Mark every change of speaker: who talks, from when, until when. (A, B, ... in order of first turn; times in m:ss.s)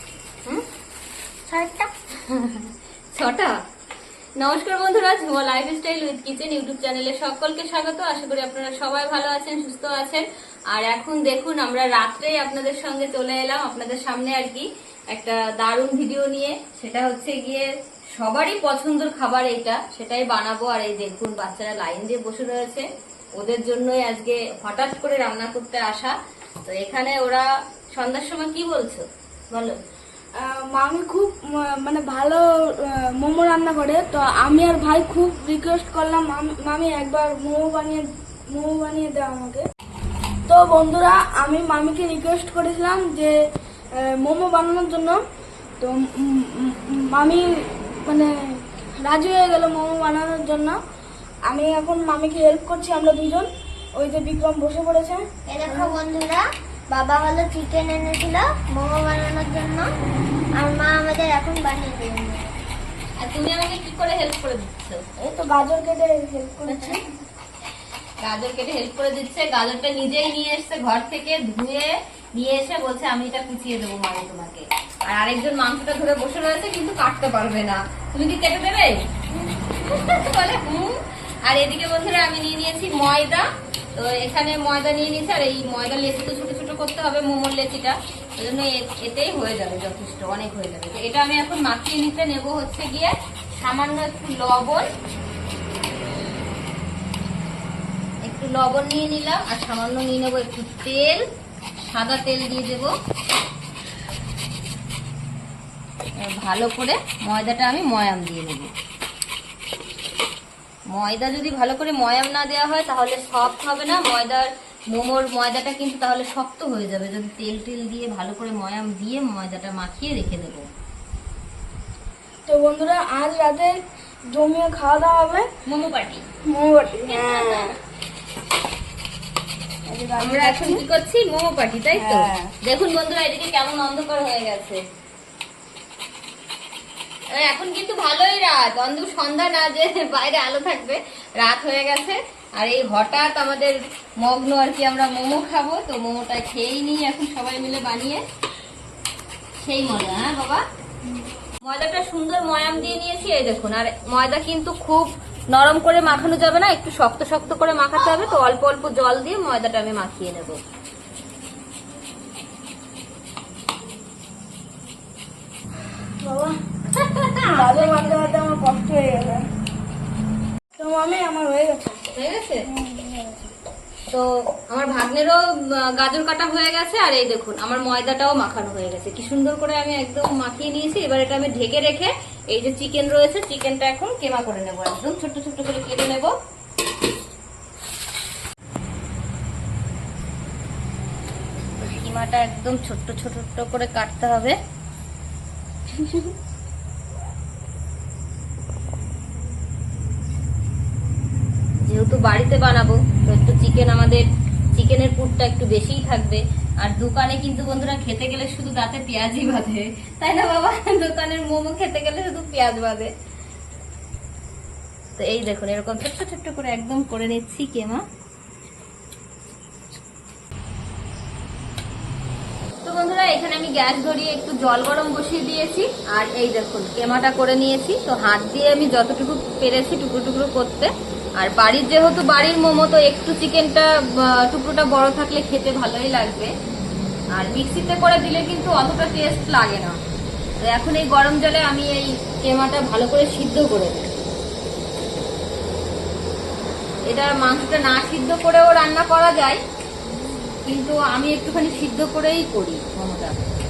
0:01.5-0:01.9 A
0:02.2-0:03.6 B
0:04.4-0:17.6 B
0:18.2-0:22.8 B
0:23.4-0:26.1 B
0:26.6-0:29.7 B
0:30.4-0:39.6 C
0:40.5-0:43.4 C
0:43.9-0:45.2 C
0:45.8-0:50.8 C
0:51.5-0:56.0 C
0:55.5-0:59.9 A
1:00.5-1:02.5 A
1:03.2-1:05.0 B
1:05.2-1:07.0 C
1:06.7-1:07.0 B
1:08.2-1:34.9 B
1:38.2-1:41.2 B
1:41.9-1:42.9 B
1:46.2-1:48.7 B
1:50.9-2:00.7 B
2:02.5-2:03.8 C
2:04.3-2:05.5 C
2:05.6-2:06.2 B
2:06.5-2:07.7 C
2:07.1-2:07.6 B
2:09.9-2:10.8 C
2:10.2-2:14.8 B
2:11.9-2:12.5 C
2:17.3-2:28.2 B
2:29.6-2:30.6 B
2:31.6-2:40.6 B
2:46.2-2:46.6 C
2:46.8-2:48.3 B
2:47.5-2:49.4 C
2:50.8-2:52.0 C
2:52.0-2:52.6 B
2:52.6-2:53.5 C
2:54.1-3:06.3 B
3:11.8-3:14.6 B
3:21.8-3:24.2 B
3:24.7-3:33.1 B
3:35.2-3:38.0 B
3:42.8-3:56.5 B
3:57.3-4:00.0 B
4:00.6-4:04.1 B
4:07.1-4:09.6 B
4:10.6-4:13.3 B